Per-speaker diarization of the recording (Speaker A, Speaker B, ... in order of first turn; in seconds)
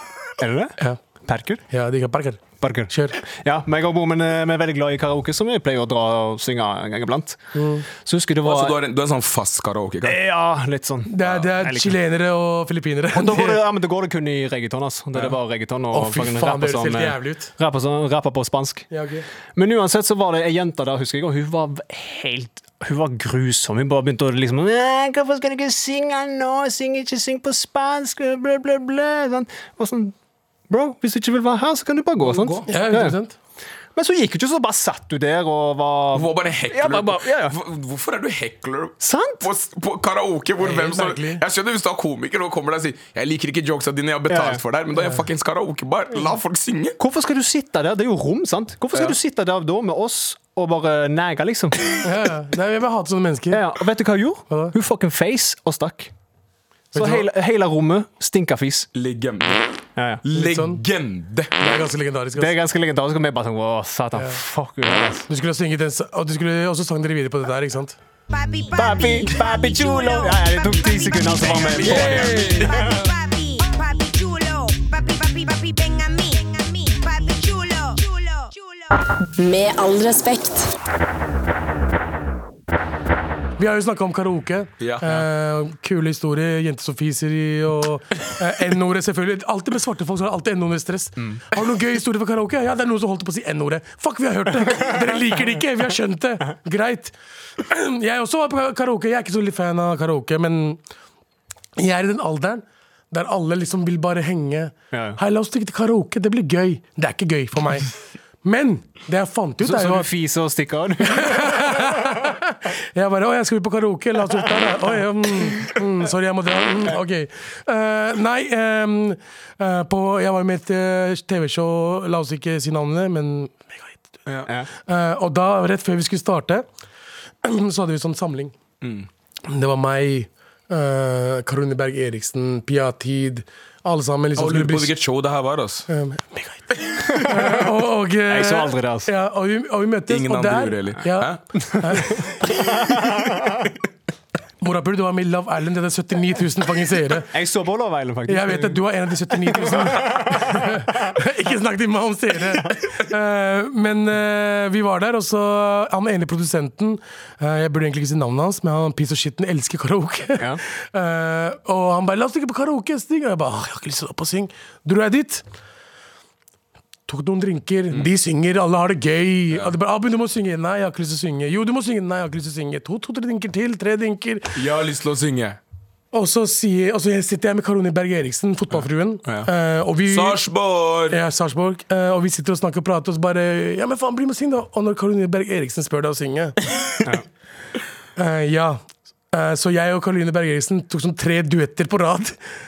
Speaker A: 0.4-1.6, 2.6-8.8, 10.0-12.0, 13.1-18.9, 19.5-30.1, 30.7-33.1, 33.9-37.6, 39.0-39.4, 44.3-44.6, 47.0-51.8, 53.5-56.1, 56.9-58.9, 60.0-60.2, 62.4-65.3, 68.7-73.1, 104.9-105.2, 109.6-112.0, 138.3-139.1, 142.8-143.5, 147.3-148.8, 149.4-150.8
Speaker B: 1.7-3.2, 7.5-7.8, 11.1-13.6, 15.9-17.5, 18.9-19.2, 32.7-33.4, 40.6-41.4, 52.0-53.6, 56.9-57.3, 60.3-60.8, 61.6-62.6, 65.3-68.0, 83.6-97.1, 97.7-100.8, 101.8-107.9, 108.4-110.1, 111.0-124.0, 124.8-126.6, 127.4-128.5, 129.5-134.9, 135.9-142.3, 144.6-147.3, 148.3-165.4, 167.1-174.6, 176.1-180.4, 181.1-186.6, 188.2-188.8, 189.3-192.4
Speaker C: 8.4-10.2, 32.2-32.6, 36.1-47.0, 58.9-59.7, 60.2-61.5, 71.4-72.8, 84.8-85.3, 128.8-129.1, 134.4-135.9, 140.1-141.4, 174.5-175.6, 179.2-179.5, 180.1-181.2
Speaker D: 68.3-80.7